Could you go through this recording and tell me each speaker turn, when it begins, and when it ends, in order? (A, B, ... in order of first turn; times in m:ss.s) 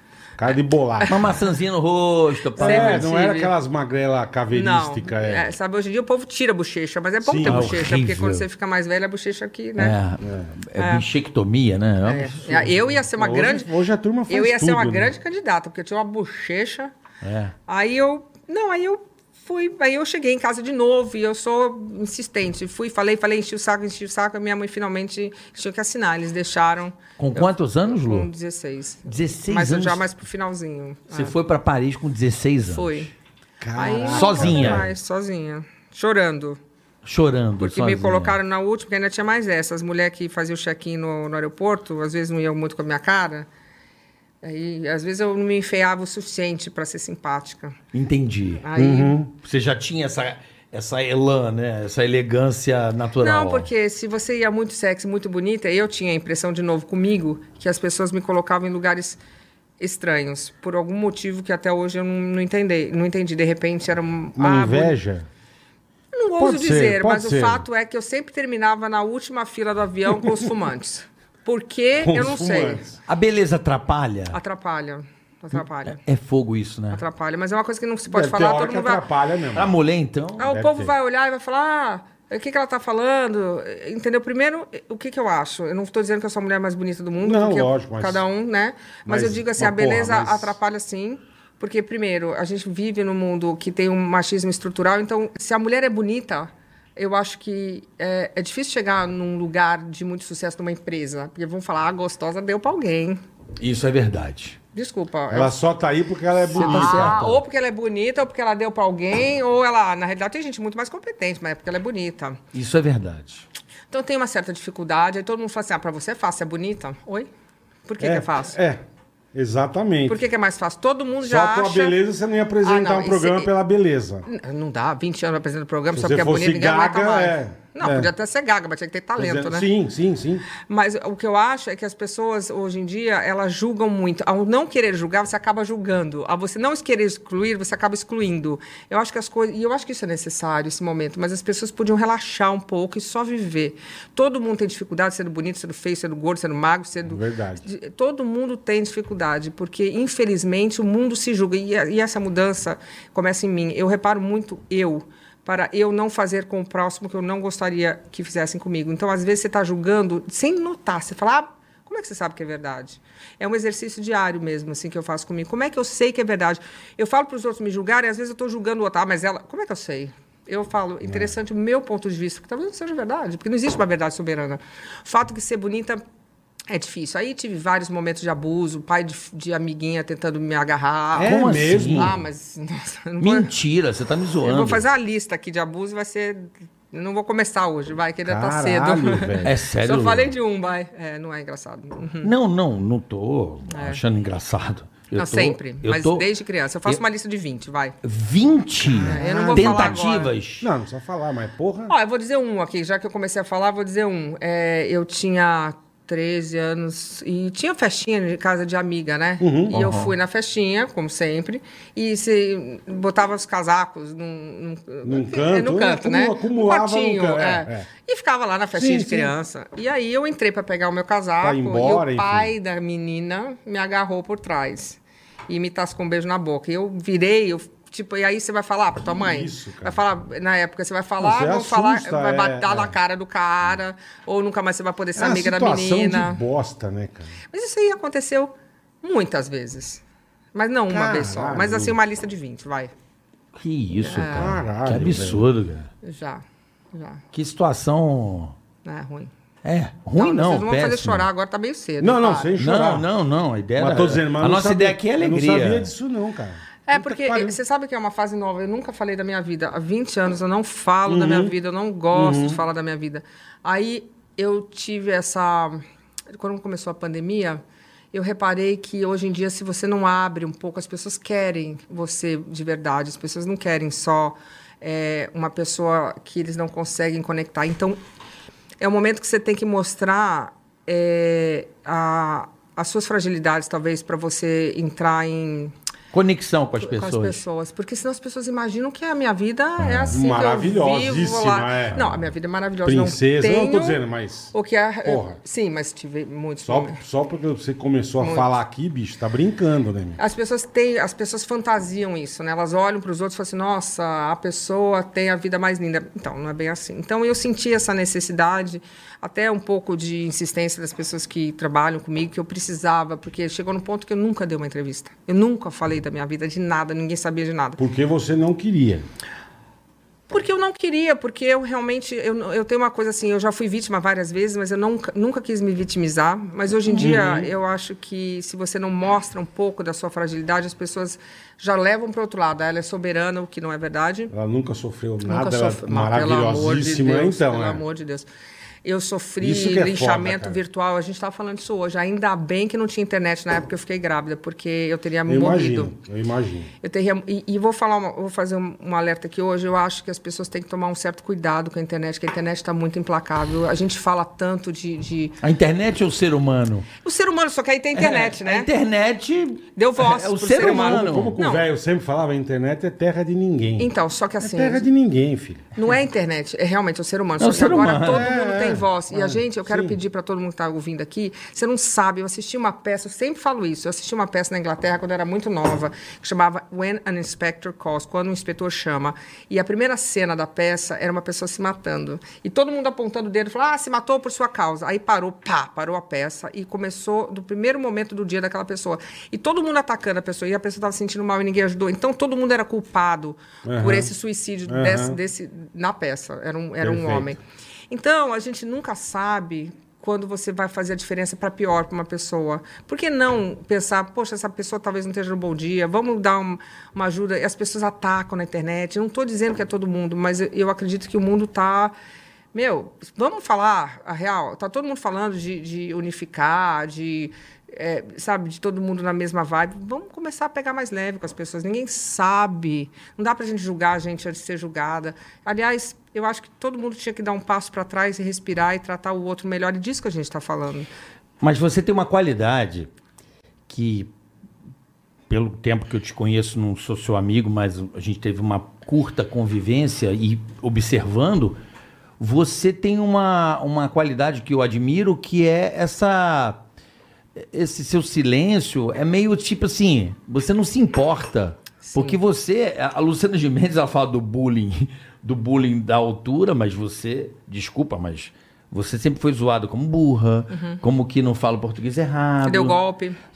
0:00.4-0:01.3 A
0:01.0-0:01.2 B
0:01.0-0:03.4 C
0:02.6-0:03.5 B
0:02.6-0:05.5 A
0:04.5-0:10.0 B
0:07.2-0:07.7 A
0:07.4-0:08.4 C
0:09.8-0:12.7 C
0:10.2-0:10.5 A
0:10.8-0:11.0 B
0:12.0-0:13.7 B
0:13.1-0:15.1 A
0:14.3-0:16.9 B
0:17.2-0:17.5 C
0:17.7-0:31.3 B
0:27.2-0:28.3 C
0:29.0-0:30.1 C
0:31.1-0:33.1 C
0:32.7-0:33.1 B
0:33.6-0:34.9 A
0:33.7-0:36.6 B
0:34.0-0:34.9 C
0:37.0-0:38.4 C
0:37.6-0:43.5 B
0:44.4-0:47.8 B
0:47.9-0:48.6 C
0:48.6-0:49.2 B
0:48.8-0:49.3 A
0:49.4-0:53.7 C
0:53.2-0:59.2 B
0:59.8-1:05.0 B
1:04.4-1:05.3 A
1:06.1-1:12.8 B
1:06.4-1:07.6 A
1:12.0-1:13.0 A
1:13.1-1:14.4 C
1:14.3-1:16.0 B
1:15.9-1:17.0 C
1:16.9-1:19.0 B
1:18.1-1:19.7 A
1:19.5-1:20.4 C
1:20.4-1:43.2 B
1:20.4-1:20.9 A
1:27.2-1:28.2 A
1:29.0-1:30.6 A
1:43.6-1:44.6 C
1:44.7-1:45.6 B
1:45.3-1:47.2 A
1:46.5-1:47.4 C
1:46.5-1:52.4 B
1:52.5-1:53.4 C
1:53.9-1:57.3 B
1:57.9-1:58.6 B
1:58.0-1:58.8 A
1:59.3-2:00.2 A
2:00.1-2:02.0 B
2:01.2-2:04.2 A
2:02.6-2:03.5 B
2:04.2-2:09.7 B
2:05.9-2:08.1 A
2:09.2-2:10.4 A
2:10.5-2:56.0 B
2:27.1-2:27.6 A
2:56.7-3:03.5 B
3:01.1-3:02.2 A
3:01.2-3:02.1 C
3:03.2-3:04.8 C
3:04.4-3:12.3 B
3:08.2-3:09.5 A
3:09.4-3:10.3 C
3:12.2-3:16.3 C
3:13.7-3:14.0 B
3:15.1-3:18.0 B
3:18.0-3:20.7 C
3:18.8-3:20.0 A
3:19.0-3:20.3 B
3:20.6-3:21.9 A
3:21.9-3:56.4 B
3:29.4-3:29.9 A
3:29.7-3:30.1 C
3:35.0-3:37.9 A
3:38.7-3:39.3 A
3:41.4-3:42.5 A
3:49.0-3:50.0 A
3:51.2-3:53.0 A
3:55.2-3:57.3 A
3:57.5-4:00.0 B
4:00.5-4:02.9 B
4:00.9-4:02.0 A
4:03.5-4:05.9 C
4:04.0-4:04.6 B
4:04.3-4:05.4 A
4:06.0-4:07.2 B
4:07.3-4:08.5 C
4:08.8-4:09.3 B
4:09.6-4:11.3 C
4:10.1-4:12.5 B
4:12.0-4:13.1 A
4:12.6-4:15.9 C
4:13.8-4:17.6 A
4:16.9-4:25.8 B
4:21.0-4:21.5 A
4:22.1-4:22.6 A
4:26.3-4:27.6 B
4:28.1-4:38.0 B
4:38.8-4:45.7 B
4:46.1-4:47.4 C
4:46.8-4:54.0 B
4:49.8-4:50.1 C
4:50.1-4:52.2 A
4:52.8-4:54.5 A
4:54.5-4:57.0 B
4:55.0-4:55.4 A
4:56.6-5:00.2 A
4:58.2-4:58.5 B
5:00.2-5:17.8 B
5:17.8-5:19.0 A
5:20.3-5:34.3 B
5:26.9-5:27.5 A
5:34.3-5:37.8 A
5:35.2-5:38.3 B
5:38.8-5:45.9 B
5:39.4-5:40.6 A
5:45.2-5:46.7 A
5:46.8-5:55.4 B
5:55.4-5:56.9 C
5:57.0-5:58.7 B
5:57.9-6:01.4 C
5:59.8-6:01.6 B
6:00.6-6:05.7 A
6:03.8-6:04.8 B
6:05.8-6:51.9 B
6:07.4-6:08.3 C
6:08.0-6:10.0 A
6:33.6-6:34.1 A
6:34.7-6:35.2 A
6:36.8-6:37.3 A
6:52.5-7:10.9 B
7:11.4-7:12.9 C
7:13.7-7:14.1 C
7:15.3-7:21.6 C
7:22.2-7:26.6 C
7:27.4-7:42.8 C
7:31.8-7:32.2 B
7:40.5-7:40.8 B
7:42.4-7:43.2 B